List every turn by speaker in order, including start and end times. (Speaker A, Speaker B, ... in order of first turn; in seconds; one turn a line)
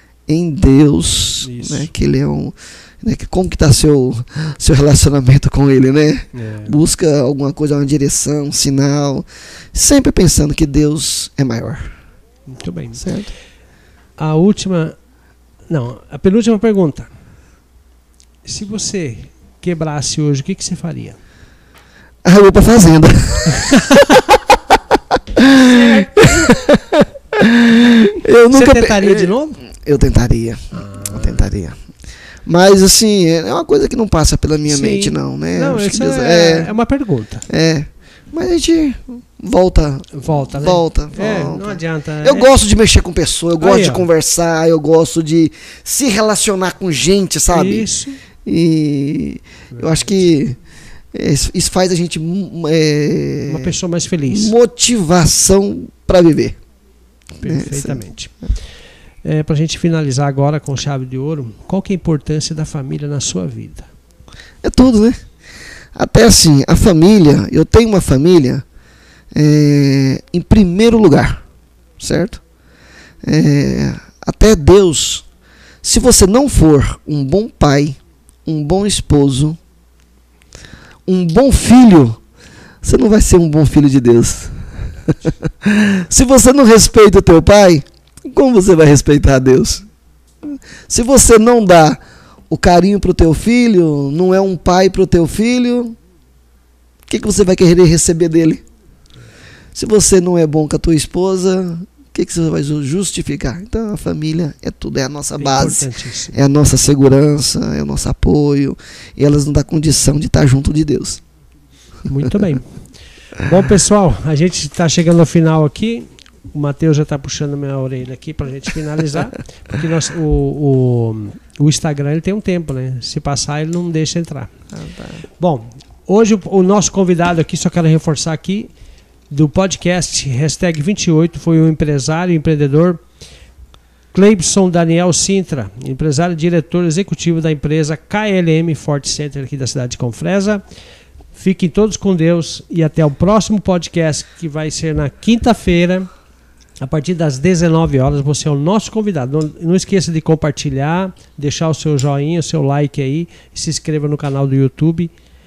Speaker A: 0.3-11.9
Speaker B: 1.4-1.9
Speaker B: 6.3-6.7
Speaker B: 12.5-13.1
Speaker A: 13.0-13.3
Speaker B: 14.2-14.9
Speaker B: 15.7-17.1
Speaker B: 18.4-21.2
Speaker A: 22.2-24.2
Speaker B: 23.5-24.2
Speaker A: 25.1-31.8
Speaker B: 25.6-26.6
Speaker B: 28.5-29.6
Speaker B: 30.7-31.5
Speaker A: 32.4-36.7
Speaker B: 34.6-37.5
Speaker A: 37.5-47.9
Speaker B: 40.1-42.5
Speaker B: 43.6-44.1
Speaker B: 47.5-48.2
Speaker A: 48.4-50.6
Speaker B: 49.7-50.2
Speaker A: 51.1-53.7
Speaker B: 53.5-54.5
Speaker A: 54.3-56.6
Speaker B: 57.4-58.3
Speaker A: 57.4-58.0
Speaker B: 59.2-63.9
Speaker A: 64.6-65.2
Speaker A: 65.9-68.6
Speaker A: 69.3-71.4
Speaker A: 72.0-72.4
Speaker A: 73.2-75.2
Speaker A: 75.8-79.6
Speaker A: 81.1-82.2
Speaker A: 82.8-89.8
Speaker A: 90.4-96.0
Speaker A: 97.1-98.6
Speaker A: 99.7-111.2
Speaker B: 105.4-106.4
Speaker B: 112.1-124.5
Speaker A: 124.7-125.2
Speaker B: 125.4-128.7
Speaker B: 129.3-133.0
Speaker B: 134.1-140.6
Speaker B: 141.3-146.1
Speaker B: 146.8-155.1